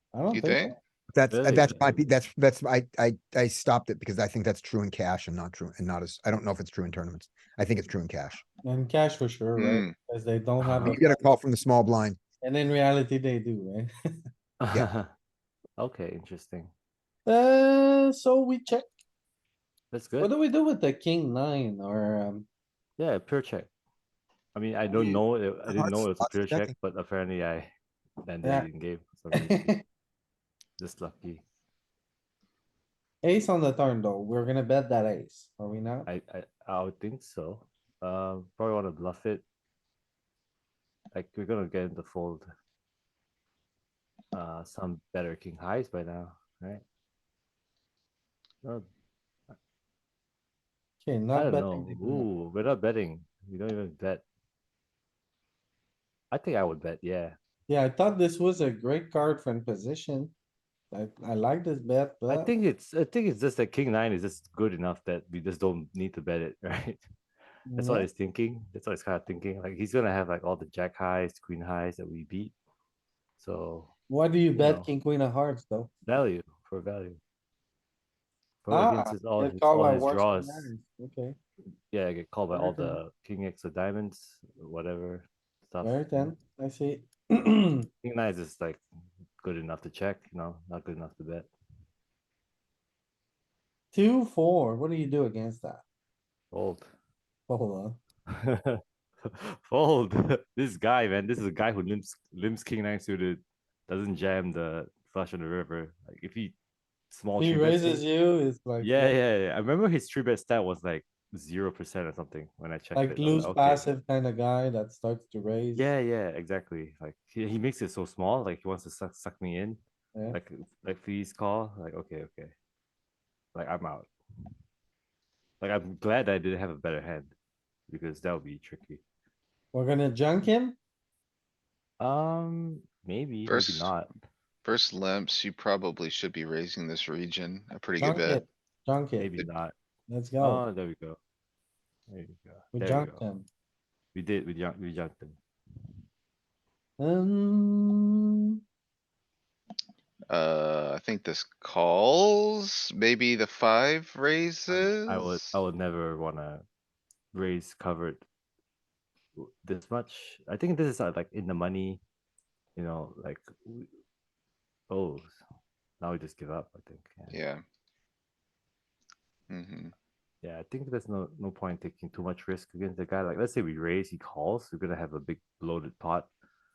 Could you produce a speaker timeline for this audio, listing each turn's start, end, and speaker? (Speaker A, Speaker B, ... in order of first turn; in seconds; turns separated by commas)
Speaker A: 0.1-0.8, Speaker B: 0.3-0.7, Speaker C: 1.1-8.4, Speaker D: 1.3-2.0, Speaker A: 8.6-11.2, Speaker B: 9.6-9.9, Speaker D: 10.6-11.0, Speaker C: 10.8-12.2, Speaker A: 12.4-13.9, Speaker D: 14.6-15.1, Speaker D: 15.8-16.7, Speaker A: 17.3-18.9, Speaker D: 19.9-20.3, Speaker A: 20.2-22.5, Speaker D: 23.0-23.7, Speaker D: 24.6-27.7, Speaker C: 24.9-26.7, Speaker D: 28.2-29.7, Speaker A: 28.4-28.7, Speaker A: 29.3-29.8, Speaker D: 30.8-31.4, Speaker A: 33.2-36.1, Speaker D: 36.1-39.4, Speaker D: 41.1-42.5, Speaker D: 44.3-46.8, Speaker A: 51.0-52.3, Speaker D: 51.3-54.2, Speaker D: 56.3-57.4, Speaker A: 57.7-60.3, Speaker A: 60.9-62.5, Speaker D: 62.3-67.0, Speaker A: 67.7-68.1, Speaker D: 67.7-72.5, Speaker D: 73.4-73.9, Speaker A: 74.1-75.9, Speaker D: 74.5-74.9, Speaker D: 76.1-77.2, Speaker D: 78.6-80.7, Speaker A: 78.7-81.4, Speaker D: 81.9-86.3, Speaker A: 82.5-83.0, Speaker A: 85.8-87.9, Speaker D: 88.0-88.8, Speaker D: 89.4-91.5, Speaker A: 93.9-95.8, Speaker D: 96.5-96.9, Speaker A: 97.5-98.0, Speaker D: 98.4-106.5, Speaker D: 107.1-108.0, Speaker A: 107.4-109.2, Speaker D: 108.8-113.9, Speaker A: 112.9-115.9, Speaker D: 115.8-122.5, Speaker A: 120.1-120.4, Speaker D: 123.5-124.1, Speaker D: 125.6-127.3, Speaker D: 127.9-129.0, Speaker A: 129.7-130.8, Speaker D: 132.0-134.1, Speaker B: 133.5-133.9, Speaker B: 134.7-138.4, Speaker A: 138.0-139.3, Speaker D: 139.2-139.7, Speaker A: 140.1-140.6, Speaker D: 140.4-141.2, Speaker D: 142.1-143.2, Speaker A: 142.7-143.5, Speaker D: 144.2-145.4, Speaker A: 147.0-148.2, Speaker B: 150.3-155.6, Speaker D: 154.7-156.6, Speaker D: 157.3-158.2, Speaker D: 159.4-162.0, Speaker D: 162.8-163.9, Speaker D: 164.9-165.4, Speaker D: 166.0-167.4, Speaker B: 167.3-167.6, Speaker B: 169.5-169.9, Speaker D: 170.4-176.3